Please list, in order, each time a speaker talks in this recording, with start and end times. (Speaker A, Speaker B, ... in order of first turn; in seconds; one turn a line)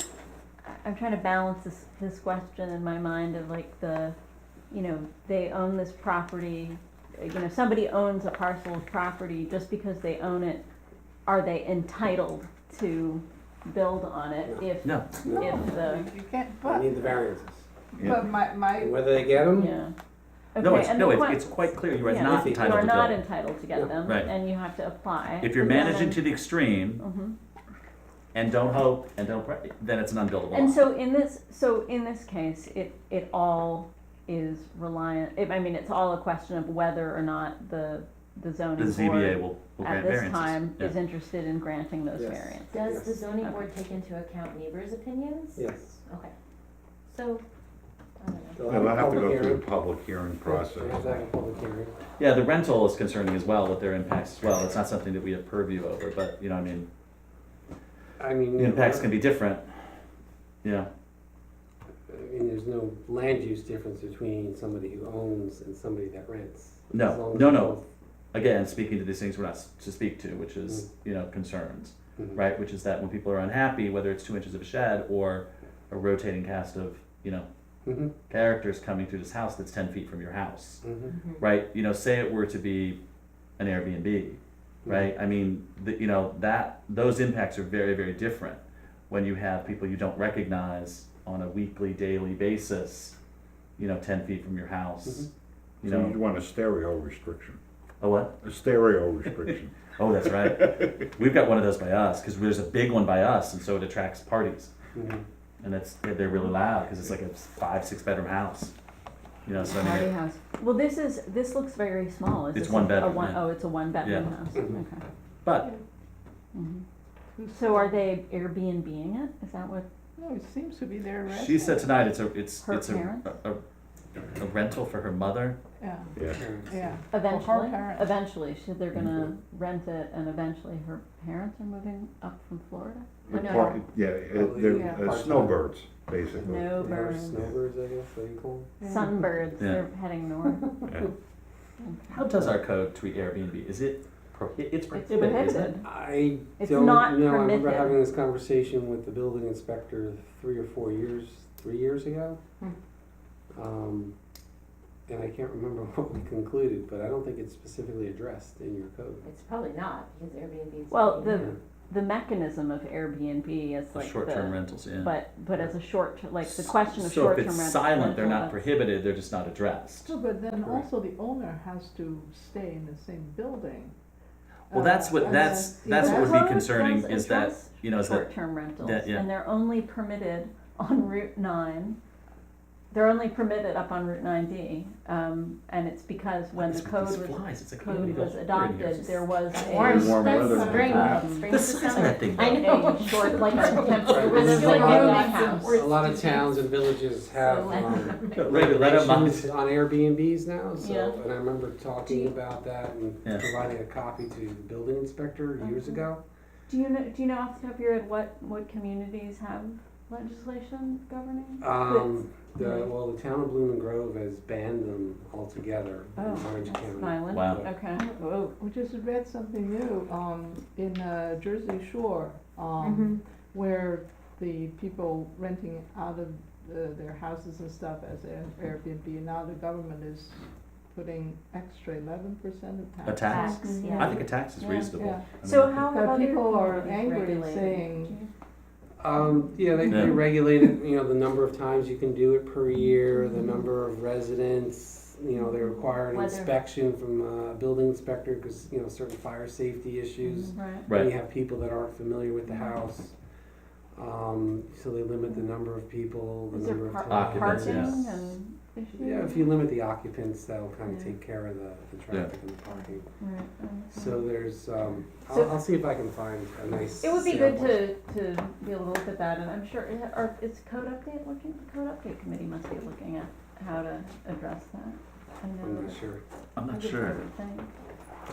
Speaker A: 0.7-4.2
Speaker A: 4.7-10.6
Speaker A: 11.2-16.1
Speaker B: 14.4-15.6
Speaker C: 14.8-15.1
Speaker D: 15.3-17.2
Speaker B: 16.6-17.7
Speaker D: 17.9-19.4
Speaker E: 18.0-18.3
Speaker B: 18.7-19.7
Speaker A: 19.5-19.9
Speaker A: 20.5-26.3
Speaker C: 20.6-23.2
Speaker B: 22.0-22.9
Speaker B: 23.7-24.0
Speaker C: 24.0-24.4
Speaker C: 25.4-27.0
Speaker A: 27.0-27.4
Speaker C: 28.3-30.9
Speaker A: 30.5-43.6
Speaker C: 38.8-41.0
Speaker B: 42.1-43.3
Speaker F: 42.7-46.3
Speaker B: 45.5-46.0
Speaker F: 47.1-47.4
Speaker F: 48.2-48.7
Speaker B: 48.5-49.7
Speaker E: 48.6-51.2
Speaker B: 50.4-52.0
Speaker C: 52.2-56.9
Speaker B: 58.2-59.1
Speaker C: 58.5-59.7
Speaker C: 60.6-60.9
Speaker B: 62.1-67.8
Speaker C: 66.9-67.8
Speaker C: 68.3-77.5
Speaker B: 72.2-72.4
Speaker B: 77.8-78.1
Speaker C: 78.3-80.8
Speaker B: 80.8-81.1
Speaker F: 81.1-81.4
Speaker C: 81.4-83.0
Speaker C: 83.6-93.2
Speaker B: 84.8-85.1
Speaker C: 93.8-95.3
Speaker E: 95.8-97.6
Speaker C: 95.8-96.2
Speaker C: 98.0-98.4
Speaker E: 98.4-99.8
Speaker C: 99.4-104.7
Speaker E: 100.4-100.7
Speaker B: 104.9-105.2
Speaker C: 105.6-108.7
Speaker C: 109.4-110.1
Speaker A: 109.6-115.0
Speaker C: 112.5-113.5
Speaker C: 114.0-114.3
Speaker C: 115.4-115.7
Speaker A: 116.5-116.8
Speaker D: 117.3-118.1
Speaker A: 117.5-119.8
Speaker D: 120.2-122.0
Speaker C: 121.3-123.6
Speaker A: 122.6-123.3
Speaker C: 124.3-125.6
Speaker D: 125.8-128.2
Speaker B: 126.3-126.7
Speaker A: 127.1-133.4
Speaker E: 133.2-136.9
Speaker F: 133.3-133.8
Speaker B: 134.3-135.6
Speaker D: 134.7-135.1
Speaker B: 136.3-138.8
Speaker A: 136.5-137.4
Speaker F: 138.8-139.1
Speaker A: 138.8-140.7
Speaker C: 139.6-139.8
Speaker A: 141.8-142.2
Speaker C: 142.1-145.8
Speaker A: 144.9-145.9
Speaker B: 145.8-152.4
Speaker A: 146.6-148.0
Speaker B: 153.5-154.1
Speaker B: 155.1-159.2
Speaker F: 159.2-161.5
Speaker A: 160.9-168.7
Speaker B: 161.3-161.5
Speaker C: 163.9-165.1
Speaker C: 166.4-170.1
Speaker D: 170.1-173.9
Speaker D: 174.7-176.5
Speaker C: 174.7-179.3
Speaker A: 175.9-182.0
Speaker A: 182.9-190.0
Speaker C: 186.6-189.0
Speaker F: 188.0-188.2
Speaker F: 188.9-196.4
Speaker E: 189.7-191.2
Speaker D: 189.9-191.2
Speaker C: 190.0-193.3
Speaker A: 190.5-195.8
Speaker B: 194.0-206.2
Speaker D: 194.5-195.3
Speaker F: 197.3-198.6
Speaker C: 198.3-199.5
Speaker A: 200.8-201.2
Speaker A: 202.1-202.3
Speaker A: 205.6-206.0
Speaker A: 206.7-212.9
Speaker B: 211.6-217.7
Speaker A: 216.2-218.5
Speaker C: 217.3-217.7
Speaker D: 218.6-233.9
Speaker F: 222.8-223.2
Speaker C: 233.0-235.8
Speaker F: 233.2-234.2
Speaker A: 233.4-238.3
Speaker D: 234.9-235.2
Speaker D: 235.8-238.2
Speaker B: 239.0-253.1
Speaker C: 239.9-240.2
Speaker F: 246.1-246.6
Speaker A: 250.2-251.0
Speaker C: 250.9-251.1
Speaker B: 253.9-258.3
Speaker A: 256.5-259.6
Speaker C: 257.1-258.0
Speaker B: 258.9-263.1
Speaker A: 260.8-261.1
Speaker A: 263.2-264.3
Speaker B: 263.9-267.9
Speaker A: 265.3-265.6
Speaker A: 267.0-276.0
Speaker B: 275.6-276.2
Speaker C: 276.6-277.2
Speaker A: 276.7-277.7